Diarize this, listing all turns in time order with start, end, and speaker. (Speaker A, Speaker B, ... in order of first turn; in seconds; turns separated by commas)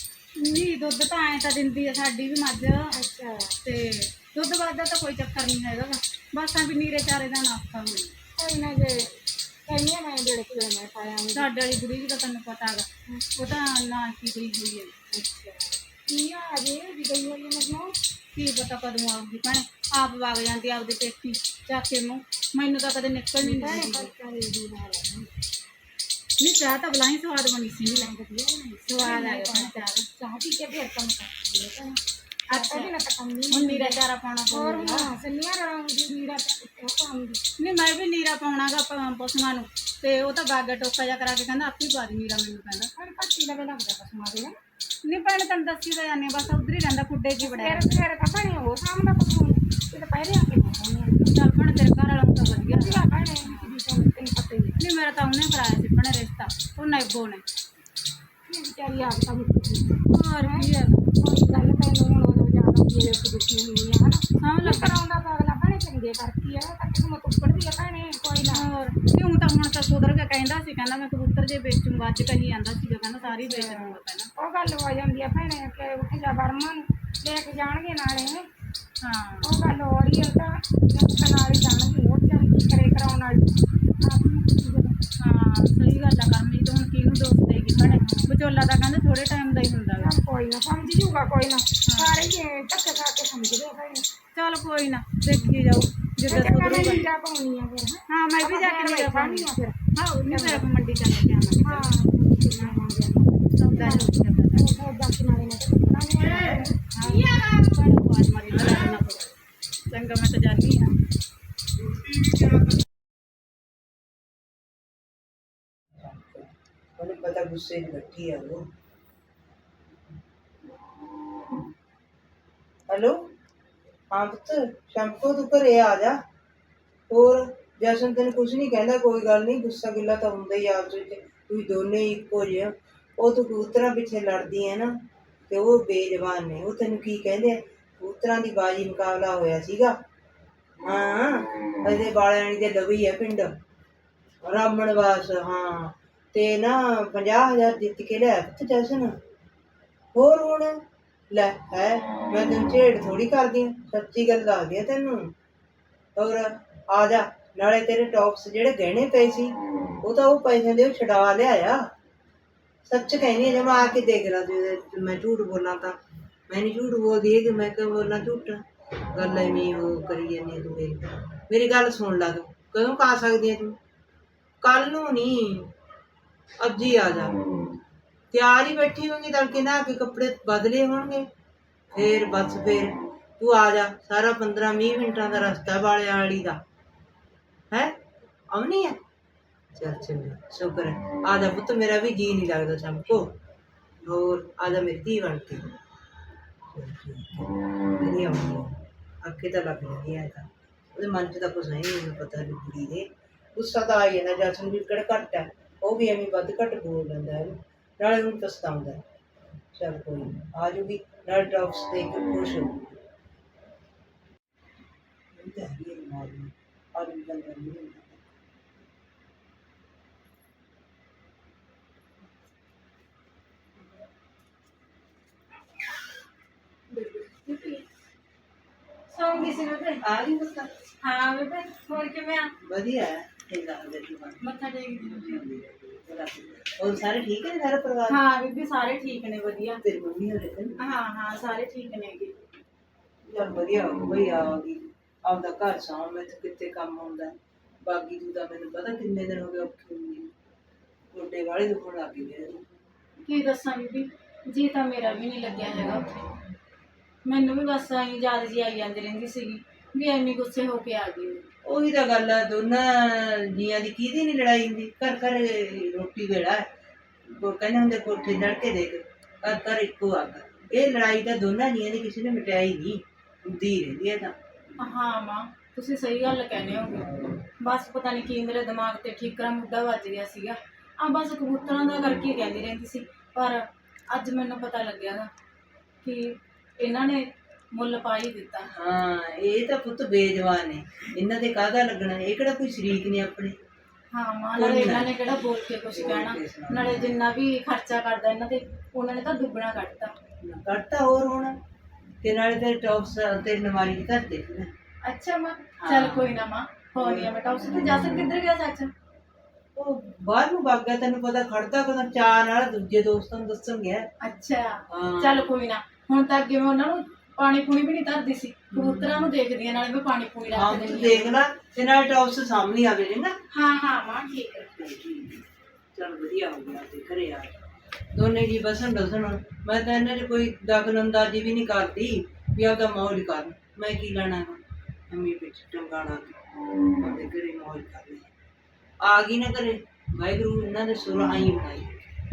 Speaker A: 0.4-2.9, Speaker B: 2.9-3.5, Speaker A: 3.6-8.1, Speaker B: 8.4-9.1, Speaker B: 9.7-11.5, Speaker A: 11.3-15.0, Speaker B: 15.1-17.9, Speaker A: 18.3-24.1, Speaker B: 23.4-25.3, Speaker A: 26.4-28.1, Speaker B: 27.8-34.0, Speaker A: 28.9-30.0, Speaker A: 32.5-32.9, Speaker A: 33.5-35.1, Speaker B: 34.5-37.4, Speaker A: 37.6-42.9, Speaker B: 43.0-44.5, Speaker A: 45.1-48.0, Speaker B: 47.4-51.4, Speaker A: 51.3-53.7, Speaker B: 52.7-54.8, Speaker A: 54.8-57.4, Speaker B: 58.5-68.7, Speaker A: 60.1-61.0, Speaker A: 64.4-65.0, Speaker A: 68.5-74.3, Speaker B: 73.2-78.5, Speaker A: 79.0-79.6, Speaker B: 79.4-85.0, Speaker A: 85.2-90.1, Speaker B: 87.7-88.3, Speaker B: 90.0-94.1, Speaker A: 91.9-92.2, Speaker A: 94.3-97.0, Speaker B: 95.3-95.6, Speaker B: 96.2-99.8, Speaker A: 98.1-101.9, Speaker B: 100.3-100.7, Speaker B: 101.6-107.2, Speaker A: 102.5-102.8, Speaker A: 103.6-104.7, Speaker C: 106.4-106.6, Speaker A: 106.9-109.3, Speaker A: 109.9-110.9, Speaker C: 116.0-118.6, Speaker C: 122.9-123.2, Speaker C: 124.1-126.2, Speaker C: 127.1-134.9, Speaker C: 135.5-139.9, Speaker C: 140.8-143.5, Speaker C: 144.4-149.2, Speaker C: 150.1-150.8, Speaker C: 151.3-155.3, Speaker C: 156.2-161.8, Speaker C: 162.9-165.9, Speaker C: 166.5-168.6, Speaker C: 169.1-173.7, Speaker C: 174.6-175.7, Speaker C: 176.6-177.3, Speaker C: 178.3-181.2, Speaker C: 181.9-186.6, Speaker C: 188.5-189.0, Speaker C: 189.8-193.3, Speaker C: 194.0-195.7, Speaker C: 196.7-209.0, Speaker C: 209.7-212.9, Speaker C: 215.3-218.2, Speaker A: 226.9-227.8, Speaker A: 229.1-230.0, Speaker C: 230.0-230.7, Speaker A: 231.0-232.5, Speaker C: 232.6-234.4, Speaker A: 234.4-235.4, Speaker C: 235.1-238.2, Speaker A: 238.1-239.8, Speaker C: 239.8-240.7, Speaker A: 240.8-242.3, Speaker C: 243.3-250.3, Speaker C: 251.1-252.6, Speaker A: 253.2-256.2, Speaker A: 257.2-261.4, Speaker C: 261.7-266.6, Speaker C: 267.4-274.3, Speaker A: 274.8-277.1, Speaker A: 277.6-285.3, Speaker A: 286.0-288.7, Speaker C: 288.7-293.5, Speaker A: 294.1-300.1, Speaker C: 294.6-295.1, Speaker C: 295.9-297.1, Speaker C: 300.4-301.6, Speaker C: 302.2-304.7, Speaker A: 305.0-308.9, Speaker C: 305.8-306.3, Speaker C: 306.9-307.3, Speaker C: 309.8-314.0, Speaker A: 314.2-321.3, Speaker C: 314.9-315.5, Speaker C: 318.7-319.1, Speaker C: 320.5-323.3, Speaker A: 323.5-324.7, Speaker C: 324.8-325.4, Speaker C: 325.9-327.5, Speaker C: 328.1-336.4, Speaker C: 337.0-338.3, Speaker C: 339.0-341.9